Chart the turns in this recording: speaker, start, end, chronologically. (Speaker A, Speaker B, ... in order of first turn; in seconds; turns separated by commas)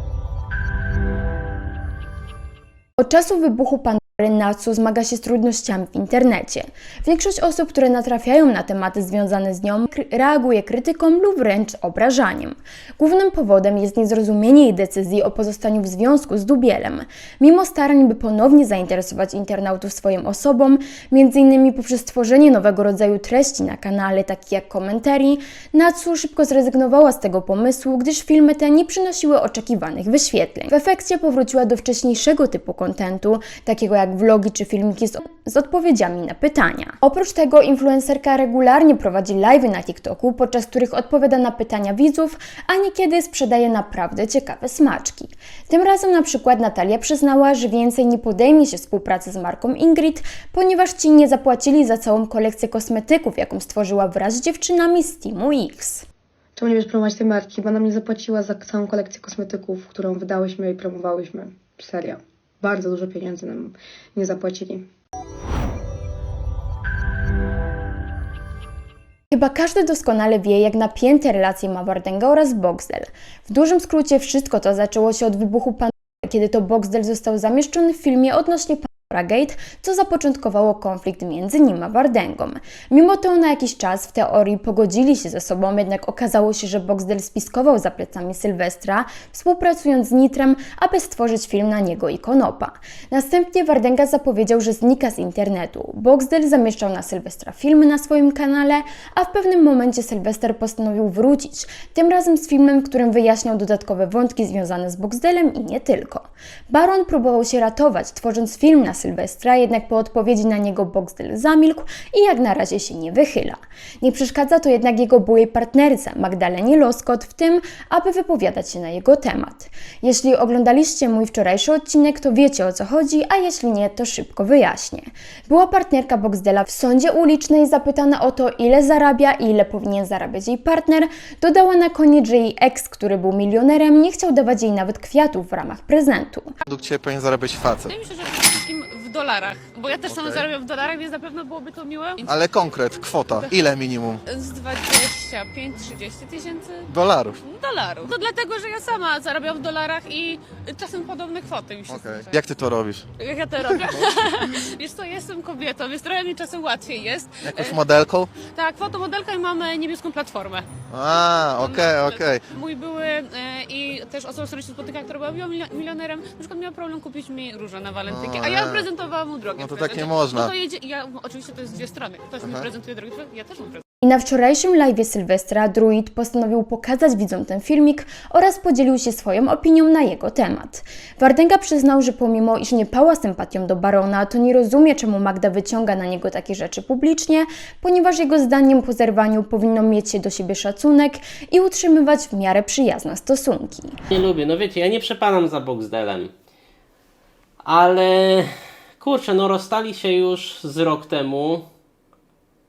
Speaker A: 3.0-56.0, Speaker B: 56.6-62.1, Speaker B: 62.6-64.7, Speaker A: 69.3-136.5, Speaker C: 136.6-137.9, Speaker D: 137.9-143.7, Speaker C: 140.1-140.4, Speaker C: 142.2-144.2, Speaker D: 144.2-152.6, Speaker C: 146.9-147.4, Speaker C: 151.9-153.1, Speaker D: 153.2-173.8, Speaker C: 157.4-158.3, Speaker C: 160.9-162.4, Speaker C: 168.1-168.9, Speaker C: 169.6-170.5, Speaker A: 174.0-194.0, Speaker E: 194.1-196.3, Speaker E: 197.6-201.7